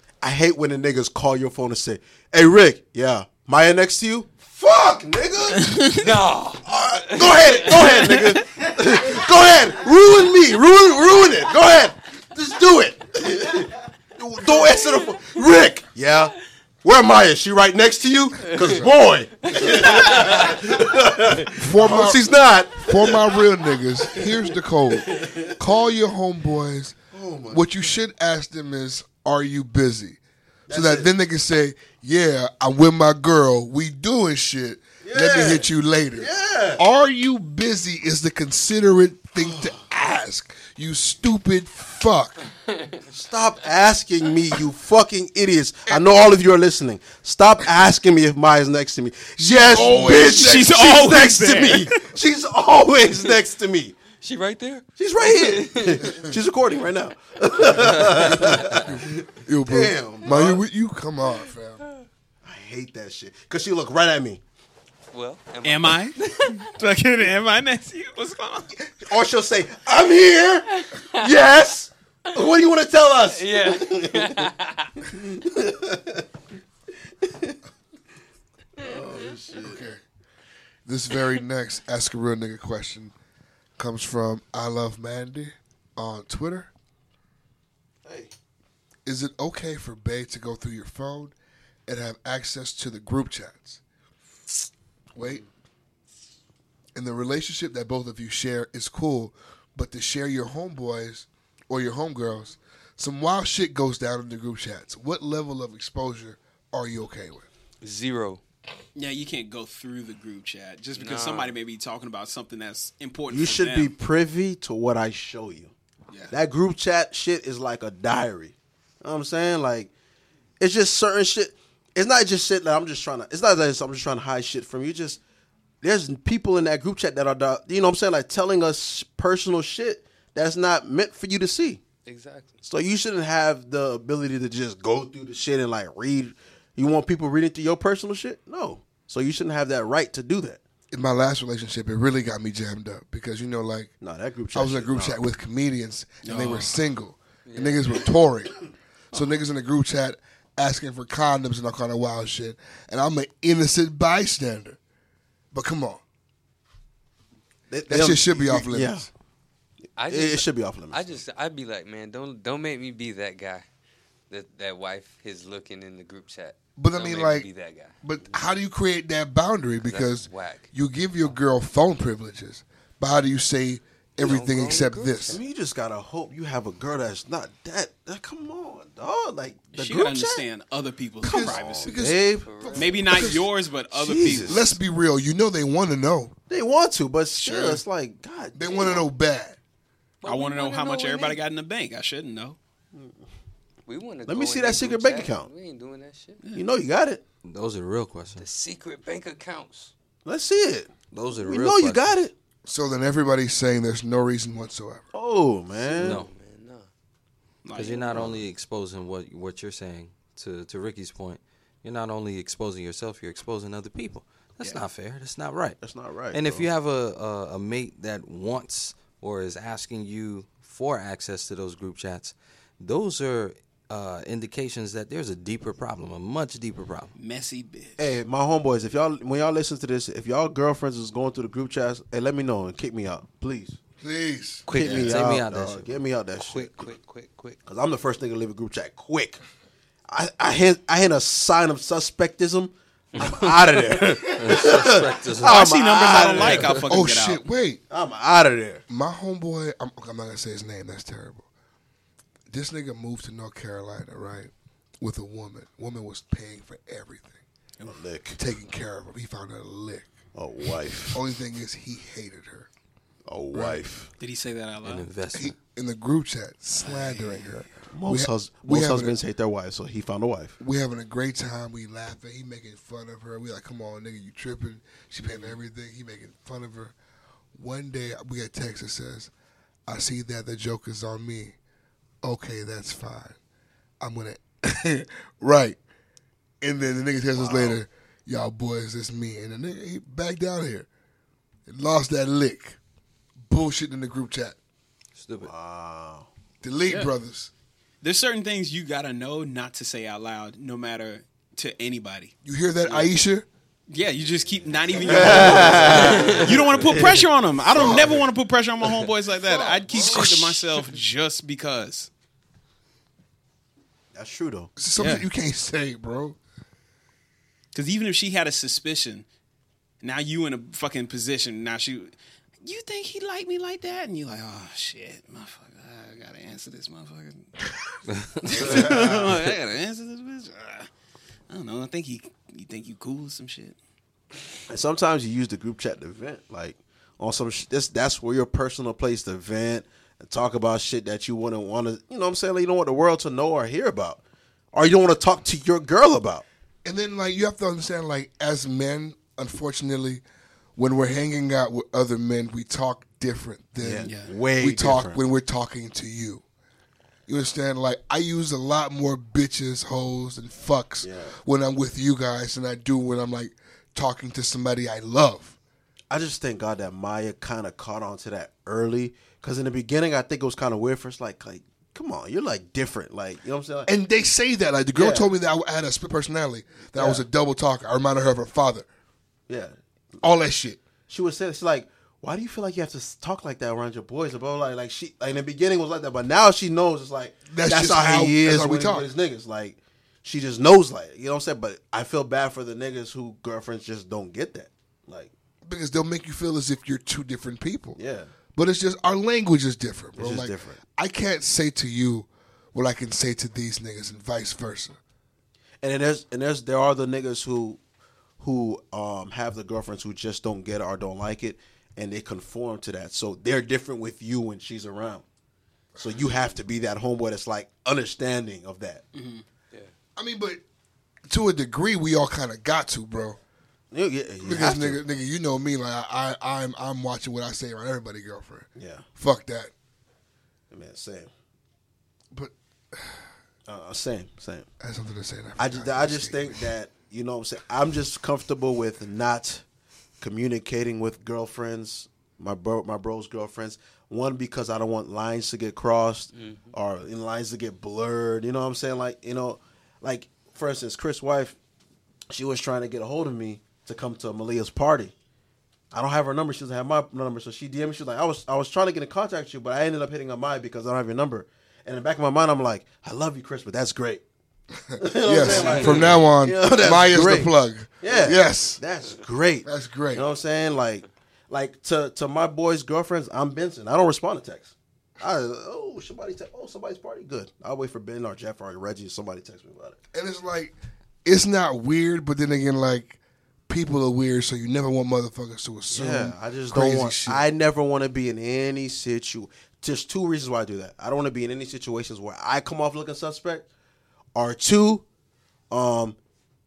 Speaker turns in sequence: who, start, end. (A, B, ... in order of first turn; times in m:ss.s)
0:00.2-0:05.7 A
0:05.6-0:06.1 B
0:06.0-0:08.1 C
0:06.6-0:23.3 A
0:18.6-0:18.9 D
0:21.5-0:27.0 D
0:25.0-0:25.5 A
0:27.1-0:27.9 A
0:27.5-0:42.4 D
0:30.7-0:31.1 A
0:35.0-0:36.8 A
0:39.4-0:39.8 A
0:43.1-0:54.0 A
0:49.4-0:50.8 D
0:50.0-0:52.1 B
0:54.2-0:56.2 C
0:55.0-0:59.1 A
0:58.5-1:01.8 D
0:59.6-1:00.6 A
1:02.4-1:04.4 A
1:05.1-1:06.5 C
1:05.6-1:08.7 B
1:08.9-1:14.5 A
1:13.3-1:15.0 C
1:15.0-1:16.2 A
1:17.2-1:17.6 A
1:18.8-1:19.8 A
1:19.6-1:20.0 D
1:20.9-1:23.1 D
1:23.8-1:26.7 D
1:28.0-1:28.3 A
1:29.1-1:31.4 D
1:31.9-1:33.8 D
1:35.2-1:35.4 D
1:37.0-1:47.5 D
1:47.8-1:48.4 C
1:49.0-1:53.9 B
1:51.0-1:51.5 C
1:53.3-1:55.7 A
1:56.3-1:59.9 A
2:00.6-2:05.2 A
2:05.8-2:11.8 A
2:12.1-2:12.6 C
2:12.6-2:20.6 A
2:20.9-2:23.9 D
2:24.0-2:25.2 A
2:24.5-2:28.5 D
2:26.2-2:26.8 B
2:27.5-2:28.0 C
2:29.1-2:34.8 D
2:35.5-2:36.0 D
2:37.7-2:39.1 A
2:37.9-2:39.0 D
2:40.0-2:43.6 C
2:40.1-2:41.2 A
2:44.3-2:48.5 C
2:46.8-2:47.5 D
2:48.0-2:55.4 D
2:49.8-2:50.7 C
2:54.2-2:55.3 C
2:55.3-3:00.5 A
2:59.7-3:02.0 B
3:01.2-3:02.9 A
3:01.2-3:03.5 D
3:02.4-3:03.3 C
3:02.8-3:04.8 B
3:03.9-3:04.7 A
3:04.5-3:06.4 D
3:06.5-3:09.1 A
3:07.4-3:07.8 B
3:08.6-3:09.6 D
3:10.2-3:11.4 C
3:10.2-3:12.6 B
3:13.9-3:16.4 C
3:14.3-3:15.5 A
3:16.5-3:17.2 A
3:17.4-3:18.5 E
3:18.4-3:19.9 C
3:20.2-3:22.3 A
3:21.1-3:22.2 E
3:22.7-3:25.0 D
3:25.1-3:26.2 A
3:25.8-3:26.9 C
3:26.0-3:26.3 E
3:27.6-3:28.3 B
3:27.7-3:35.8 E
3:34.6-3:34.8 B
3:35.8-3:36.7 A
3:36.3-3:47.1 E
3:47.2-3:48.1 B
3:48.0-3:53.8 A
3:54.0-3:55.1 D
3:54.7-3:55.0 C
3:54.7-3:56.0 E
3:54.7-3:56.9 A
3:56.5-3:57.6 C
3:57.7-3:59.4 A
4:00.1-4:06.9 A
4:03.9-4:05.7 E
4:05.4-4:07.4 B
4:06.9-4:07.8 D
4:07.9-4:08.8 A
4:08.9-4:11.5 D
4:12.5-4:17.4 D
4:17.8-4:18.4 A
4:18.4-4:20.1 D
4:20.4-4:21.2 A
4:21.1-4:22.7 D
4:23.3-4:24.1 A
4:23.5-4:23.8 D
4:24.2-4:25.1 B
4:24.8-4:25.6 E
4:25.3-4:29.2 D
4:26.8-4:27.6 B
4:27.9-4:30.6 A
4:30.6-4:36.9 D
4:37.6-4:39.3 D
4:39.9-4:41.6 D
4:42.2-4:43.4 D
4:44.0-4:45.8 D
4:46.6-4:50.9 D
4:47.4-4:47.8 A
4:51.7-4:52.8 D
4:53.5-4:54.6 D
4:55.2-4:55.5 E
4:55.4-4:56.3 A
4:56.6-4:57.5 D
4:58.0-5:02.3 B
5:02.4-5:03.5 D
5:03.9-5:12.1 B
5:05.0-5:07.2 A
5:06.0-5:06.5 C
5:07.7-5:08.3 D
5:09.5-5:10.2 A
5:10.2-5:10.6 D
5:14.2-5:14.7 A
5:14.8-5:16.4 D
5:15.0-5:15.3 B
5:17.7-5:19.3 B
5:20.0-5:27.5 B
5:28.4-5:30.9 B
5:28.5-5:29.3 A
5:31.5-5:33.8 B
5:34.7-5:44.2 A
5:44.7-5:46.4 A
5:46.8-5:50.2 D
5:50.8-5:56.4 D
5:53.8-5:55.2 A
5:54.0-5:54.3 B
5:57.3-6:05.6 D
6:01.0-6:01.4 A
6:06.1-6:13.9 A
6:13.9-6:18.9 D
6:15.0-6:15.3 A
6:17.0-6:17.2 A
6:19.5-6:19.8 A
6:20.2-6:20.8 D
6:21.1-6:35.3 A
6:27.5-6:29.1 D
6:35.6-6:38.0 D
6:38.0-6:38.3 A
6:38.6-6:45.0 D
6:40.2-6:40.8 A
6:45.8-6:47.8 A
6:48.4-6:55.2 A
6:56.0-6:56.2 D
6:56.0-6:59.0 A
6:59.2-6:59.4 B
7:00.2-7:00.6 D
7:01.3-7:03.4 D
7:03.9-7:05.0 A
7:04.4-7:09.7 D
7:08.8-7:09.1 A
7:10.7-7:11.3 A
7:12.3-7:13.3 D
7:13.7-7:14.7 A
7:14.8-7:16.7 D
7:15.6-7:19.6 A
7:20.2-7:31.6 A
7:26.3-7:26.7 C
7:32.3-7:35.1 A
7:35.9-7:44.2 A
7:44.9-7:48.8 D
7:45.0-8:00.0 A
7:49.6-7:50.2 D
8:00.1-8:07.4 D
8:05.9-8:13.7 A
8:14.4-8:15.0 A
8:15.7-8:16.2 A